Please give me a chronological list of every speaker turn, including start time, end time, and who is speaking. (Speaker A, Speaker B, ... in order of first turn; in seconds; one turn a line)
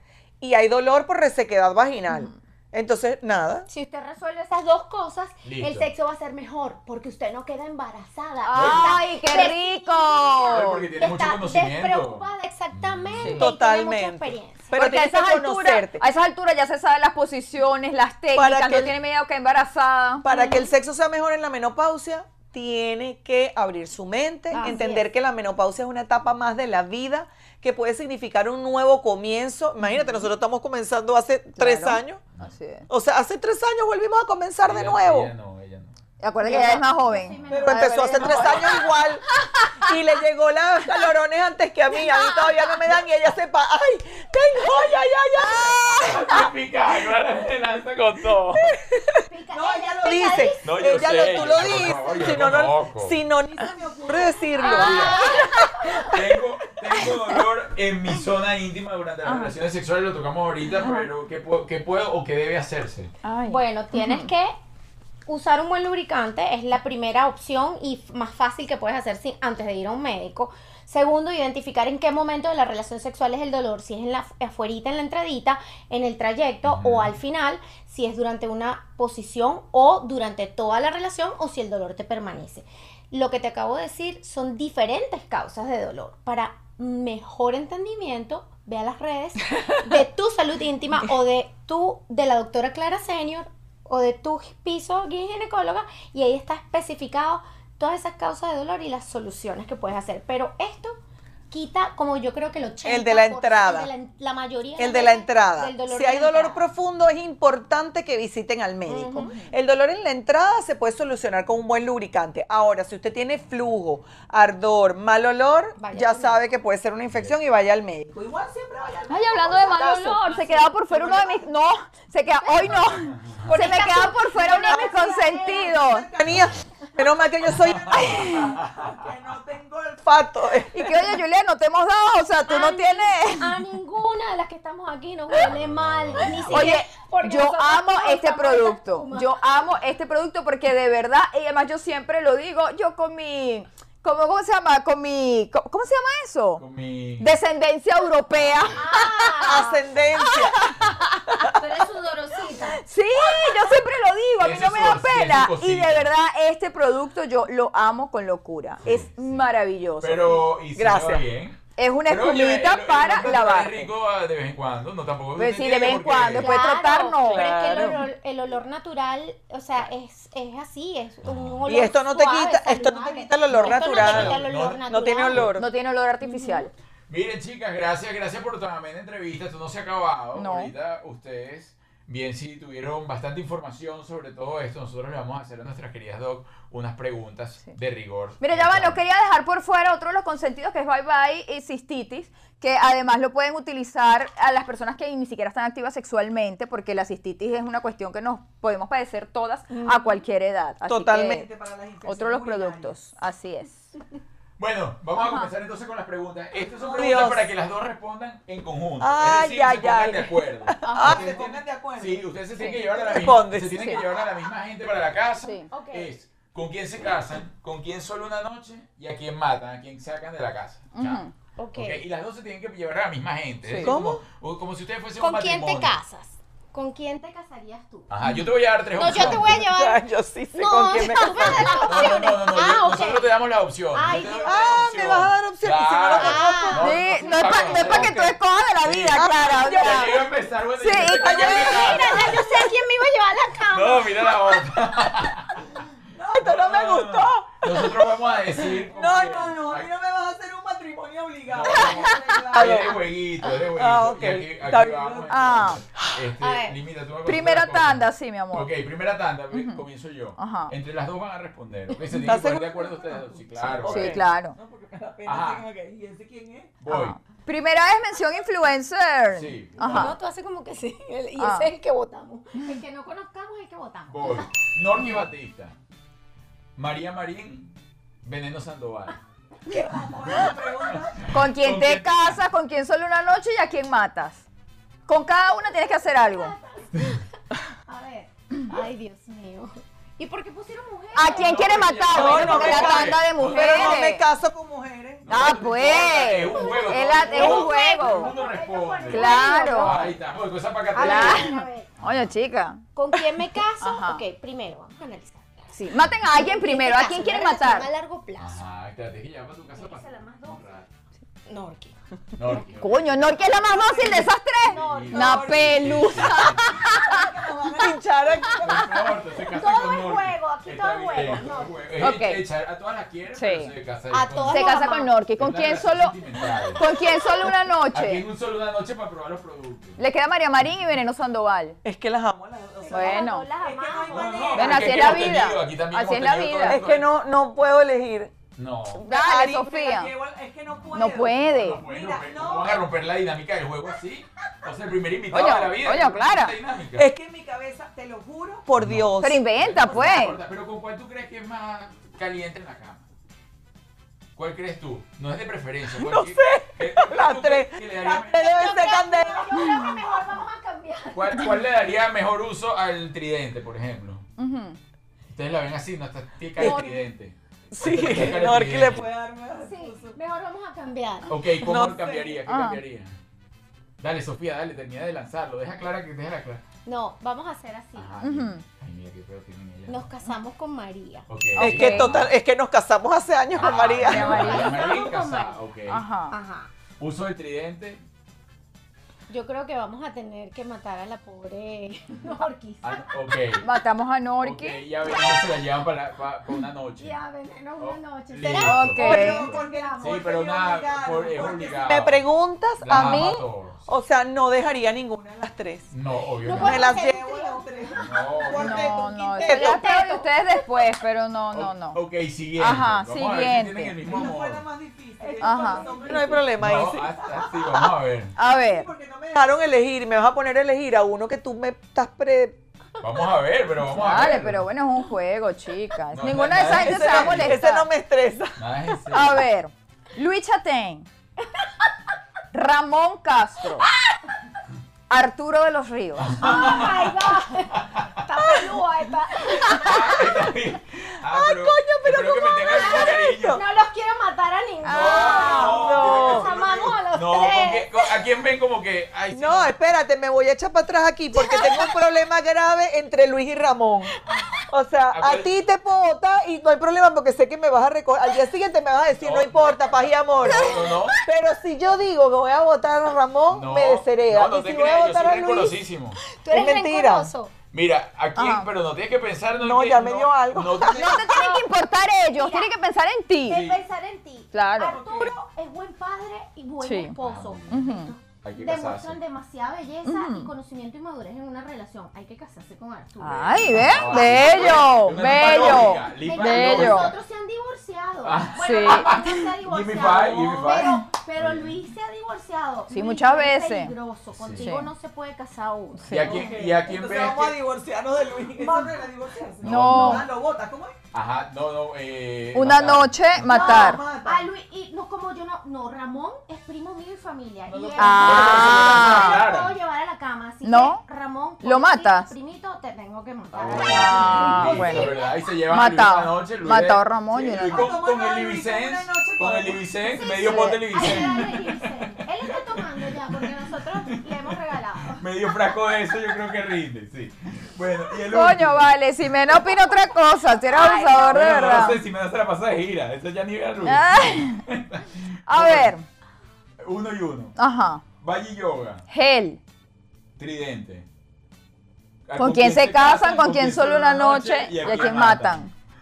Speaker A: 0.4-3.7
Speaker B: 3.7-14.7
Speaker C: 5.4-5.9
Speaker D: 8.4-10.9
Speaker C: 8.5-9.0
Speaker C: 10.5-13.4
Speaker D: 13.2-13.5
Speaker A: 13.3-16.0
Speaker D: 14.7-20.2
Speaker A: 18.3-18.9
Speaker A: 20.2-32.2
Speaker B: 20.3-20.7
Speaker B: 24.5-25.1
Speaker D: 31.6-32.9
Speaker A: 32.9-35.3
Speaker C: 34.6-36.0
Speaker D: 36.2-39.8
Speaker B: 36.4-38.9
Speaker A: 37.5-46.2
Speaker D: 42.0-42.4
Speaker D: 45.4-46.4
Speaker C: 46.0-48.8
Speaker A: 48.6-55.4
Speaker B: 49.3-51.5
Speaker C: 50.6-53.2
Speaker B: 54.5-56.1
Speaker C: 54.6-55.4
Speaker D: 54.7-55.6
Speaker C: 56.0-63.1
Speaker D: 59.2-59.5
Speaker D: 60.7-61.1
Speaker D: 63.2-64.3
Speaker B: 63.5-64.5
Speaker B: 65.3-101.0
Speaker C: 76.6-77.2
Speaker B: 101.5-106.7
Speaker A: 102.8-103.9
Speaker A: 104.8-121.4
Speaker B: 108.9-109.4
Speaker B: 115.8-116.4
Speaker D: 119.1-126.1
Speaker B: 120.2-120.7
Speaker B: 122.4-122.9
Speaker B: 123.5-125.8
Speaker A: 123.5-123.9
Speaker A: 124.6-131.2
Speaker D: 127.9-128.5
Speaker D: 130.7-133.7
Speaker B: 132.5-139.4
Speaker C: 135.3-136.7
Speaker D: 136.4-146.6
Speaker C: 146.6-147.3
Speaker D: 147.2-151.2
Speaker C: 148.4-148.8
Speaker B: 148.7-149.8
Speaker A: 149.4-150.6
Speaker A: 151.3-151.6
Speaker B: 151.4-152.8
Speaker D: 152.7-160.5
Speaker C: 154.4-156.1
Speaker C: 158.8-159.4
Speaker C: 160.0-166.6
Speaker A: 160.8-161.3
Speaker D: 161.8-163.9
Speaker D: 165.4-168.0
Speaker B: 166.3-175.5
Speaker A: 167.2-168.0
Speaker C: 171.2-171.6
Speaker A: 171.6-175.7
Speaker C: 173.9-174.8
Speaker D: 175.5-176.7
Speaker B: 176.2-176.7
Speaker C: 177.1-189.0
Speaker D: 180.3-180.7
Speaker D: 188.4-201.5
Speaker A: 199.7-200.2
Speaker A: 200.8-203.0
Speaker D: 202.0-203.9
Speaker C: 204.6-225.9
Speaker D: 205.2-205.5
Speaker A: 206.8-207.5
Speaker A: 209.0-212.3
Speaker D: 210.8-211.4
Speaker D: 212.6-213.0
Speaker A: 212.9-214.0
Speaker D: 213.8-214.0
Speaker B: 215.7-216.1
Speaker D: 220.9-221.3
Speaker B: 221.6-222.0
Speaker D: 223.7-223.9
Speaker A: 223.8-224.2
Speaker B: 225.2-228.4
Speaker C: 228.1-229.6
Speaker B: 228.9-233.3
Speaker A: 229.1-232.2
Speaker D: 231.0-231.6
Speaker C: 231.8-242.4
Speaker B: 233.9-234.8
Speaker A: 234.4-236.9
Speaker B: 236.1-238.1
Speaker D: 236.7-240.2
Speaker A: 237.6-238.3
Speaker A: 239.1-240.2
Speaker D: 240.8-242.3
Speaker A: 241.1-242.3
Speaker B: 241.2-244.7
Speaker C: 243.7-249.9
Speaker A: 246.1-253.1
Speaker C: 251.5-264.2
Speaker D: 252.1-252.7
Speaker A: 253.8-256.2
Speaker D: 255.3-255.8
Speaker B: 256.4-256.8
Speaker D: 257.2-258.7
Speaker D: 259.5-259.8
Speaker D: 260.4-260.7
Speaker A: 262.2-266.8
Speaker D: 263.8-264.6
Speaker C: 265.2-265.6
Speaker C: 266.8-267.2
Speaker D: 266.9-270.1
Speaker C: 269.3-270.1
Speaker B: 269.8-274.6
Speaker D: 271.4-271.7
Speaker C: 274.1-275.8
Speaker D: 274.9-275.2
Speaker C: 276.8-279.2
Speaker B: 279.7-280.5
Speaker A: 279.7-281.3
Speaker C: 280.9-282.4
Speaker D: 281.3-284.4
Speaker D: 285.1-286.5
Speaker B: 285.8-287.2
Speaker B: 287.8-293.1
Speaker D: 291.1-294.2
Speaker C: 291.3-294.0
Speaker A: 292.1-295.2
Speaker C: 295.2-302.3
Speaker D: 295.3-298.3
Speaker B: 296.5-300.2
Speaker D: 299.1-300.1
Speaker B: 300.9-301.9
Speaker D: 300.9-304.2
Speaker B: 302.9-308.6
Speaker D: 305.7-307.9
Speaker C: 308.4-310.9
Speaker B: 309.8-310.7
Speaker B: 311.5-311.9
Speaker C: 312.4-313.4
Speaker D: 312.5-317.3
Speaker A: 313.4-314.3
Speaker B: 314.6-315.6
Speaker C: 314.7-316.9
Speaker A: 314.9-315.7
Speaker A: 316.8-319.0
Speaker B: 318.3-318.6
Speaker C: 318.6-324.8
Speaker B: 319.5-321.9
Speaker D: 322.0-322.4
Speaker D: 323.3-323.7
Speaker B: 324.1-325.1
Speaker D: 324.5-326.1
Speaker C: 325.4-326.9
Speaker D: 326.7-328.2
Speaker C: 327.9-330.0
Speaker D: 330.0-331.8
Speaker A: 331.8-335.3
Speaker B: 332.8-334.8
Speaker D: 332.9-333.5
Speaker C: 334.1-337.1
Speaker D: 334.5-336.8
Speaker A: 336.6-338.3
Speaker C: 338.6-339.1
Speaker D: 339.0-340.1
Speaker A: 339.0-342.8
Speaker D: 340.9-341.8
Speaker C: 341.6-347.1
Speaker D: 345.3-346.5
Speaker A: 347.0-349.4
Speaker C: 348.8-353.1
Speaker D: 349.2-350.4
Speaker C: 354.4-358.7
Speaker A: 355.9-359.6
Speaker B: 358.3-361.6
Speaker D: 359.5-360.0
Speaker C: 361.1-364.2
Speaker D: 364.4-364.8
Speaker C: 365.3-369.1
Speaker A: 366.6-367.0
Speaker B: 366.6-367.0
Speaker A: 367.7-370.2
Speaker B: 369.6-371.3
Speaker C: 371.3-373.2
Speaker A: 371.6-372.4
Speaker D: 372.5-372.8
Speaker C: 374.0-376.6
Speaker B: 376.8-378.2
Speaker C: 377.9-380.0
Speaker D: 378.2-378.6
Speaker B: 379.9-381.3
Speaker C: 381.3-382.3
Speaker D: 381.6-382.1
Speaker A: 381.6-384.8
Speaker C: 383.6-386.0
Speaker B: 383.6-385.6
Speaker D: 384.1-384.7
Speaker D: 385.9-386.3
Speaker B: 386.3-386.7
Speaker C: 387.0-388.0
Speaker B: 389.3-393.1
Speaker C: 392.8-393.7
Speaker D: 393.6-394.8
Speaker C: 394.4-397.2
Speaker B: 397.0-400.3
Speaker C: 397.8-402.3
Speaker D: 398.6-399.5
Speaker A: 398.9-405.9
Speaker C: 402.8-403.9
Speaker C: 405.9-406.9
Speaker B: 406.4-408.1
Speaker A: 406.6-409.8
Speaker C: 408.0-408.9
Speaker D: 408.6-412.0
Speaker B: 409.4-410.7
Speaker C: 411.5-414.6
Speaker D: 412.6-414.0
Speaker A: 414.0-417.9
Speaker B: 415.2-416.9
Speaker D: 415.4-416.3
Speaker C: 416.6-418.3
Speaker D: 418.4-418.9
Speaker A: 418.6-422.6
Speaker C: 423.0-424.6
Speaker D: 423.8-427.9
Speaker C: 426.1-427.6
Speaker A: 426.6-428.6
Speaker C: 428.6-429.4
Speaker D: 429.1-431.1
Speaker D: 432.5-433.9
Speaker D: 435.1-436.8
Speaker C: 436.2-438.3
Speaker B: 436.4-440.5
Speaker A: 438.4-438.8
Speaker A: 439.5-440.1
Speaker C: 439.6-443.6
Speaker A: 441.2-443.6
Speaker B: 442.6-448.0
Speaker D: 444.8-446.0
Speaker C: 444.9-449.7
Speaker A: 445.4-446.5
Speaker A: 449.3-454.1
Speaker B: 451.3-451.9
Speaker A: 454.7-465.8
Speaker C: 455.1-455.5
Speaker C: 459.2-461.2
Speaker B: 460.5-461.2
Speaker C: 463.5-466.2
Speaker B: 466.3-467.5
Speaker A: 466.5-467.3
Speaker C: 467.7-471.2
Speaker D: 468.4-468.7
Speaker A: 469.6-471.2
Speaker D: 470.9-473.7
Speaker B: 471.0-471.7
Speaker B: 472.3-472.7
Speaker B: 473.4-496.3
Speaker C: 473.5-473.8
Speaker D: 474.5-475.0
Speaker A: 474.8-475.4
Speaker D: 476.8-477.1
Speaker C: 477.2-477.8
Speaker D: 477.7-478.1
Speaker C: 478.4-479.2
Speaker D: 480.0-480.5
Speaker D: 483.2-487.1
Speaker C: 483.5-487.1
Speaker C: 488.2-491.8
Speaker D: 488.6-489.4
Speaker D: 490.6-491.0
Speaker D: 492.9-493.9
Speaker C: 494.3-494.7
Speaker D: 494.6-494.9
Speaker D: 496.0-496.5
Speaker C: 496.1-497.6
Speaker A: 496.1-500.9
Speaker B: 498.4-499.5
Speaker C: 499.6-500.3
Speaker D: 499.6-500.3
Speaker C: 501.1-503.6
Speaker D: 502.5-504.0
Speaker A: 503.4-504.5
Speaker B: 503.5-515.3
Speaker A: 507.7-509.2
Speaker C: 507.8-509.8
Speaker D: 508.0-509.4
Speaker D: 510.6-511.0
Speaker D: 511.6-512.3
Speaker C: 513.5-521.8
Speaker D: 513.9-518.0
Speaker A: 517.6-519.9
Speaker B: 520.1-525.3
Speaker D: 520.4-521.3
Speaker C: 522.5-523.5
Speaker C: 524.0-529.0
Speaker D: 528.3-532.0
Speaker B: 530.7-531.9
Speaker C: 531.3-535.9
Speaker D: 533.8-534.6
Speaker D: 535.5-536.0
Speaker C: 536.8-537.5
Speaker D: 537.6-538.0
Speaker C: 538.2-539.0
Speaker D: 539.1-539.6
Speaker C: 540.4-541.0
Speaker C: 542.3-545.6
Speaker D: 542.4-545.7